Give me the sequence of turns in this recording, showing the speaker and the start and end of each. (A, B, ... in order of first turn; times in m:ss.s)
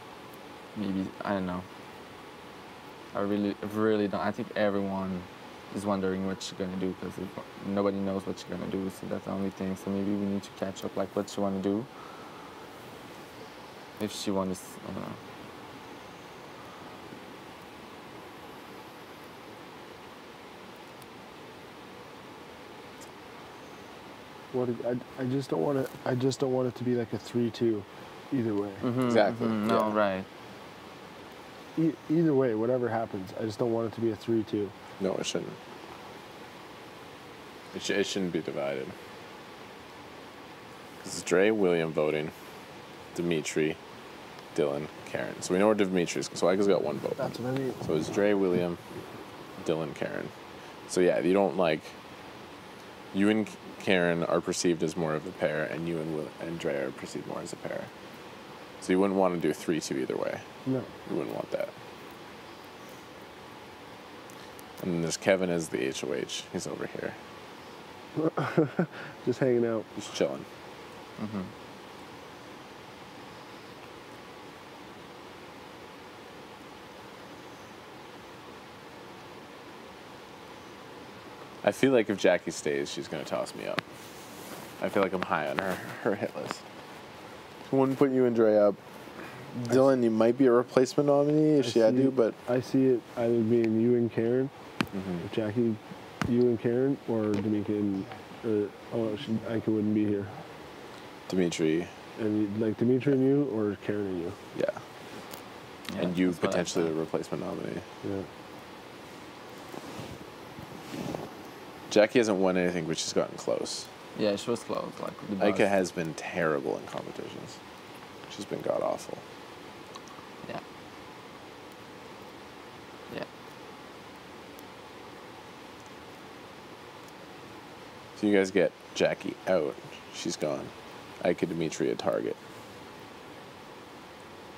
0:00.7-0:01.6 A
0:03.1-0:11.9 A
0:14.0-0:15.2 A
0:24.5-0:28.9 B
0:28.8-0:30.3 A
0:29.0-0:29.9 C
0:31.8-0:34.7 B
0:35.0-0:35.6 C
0:37.7-0:38.9 C
0:41.0-0:42.3 C
0:43.1-0:43.8 C
0:44.5-0:48.8 C
0:47.2-0:47.8 B
0:49.6-0:50.3 C
0:50.9-0:52.0 C
0:53.1-0:57.9 C
0:58.8-1:00.4 C
1:00.6-1:00.9 B
1:01.0-1:01.7 C
1:04.8-1:07.2 C
1:08.1-1:09.9 B
1:10.0-1:10.4 C
1:11.2-1:11.5 A
1:21.6-1:23.8 C
1:24.8-1:26.6 C
1:27.6-1:32.4 C
1:31.6-1:34.5 B
1:34.9-1:35.2 C
1:35.2-1:40.4 B
1:41.3-1:41.9 C
1:42.2-1:44.4 B
1:44.5-1:44.8 C
1:45.9-1:46.9 A
1:46.0-1:47.8 C
1:51.9-1:53.9 C
1:54.1-1:55.7 A
1:55.4-1:57.6 C
1:58.3-1:59.2 C
2:08.2-2:12.4 C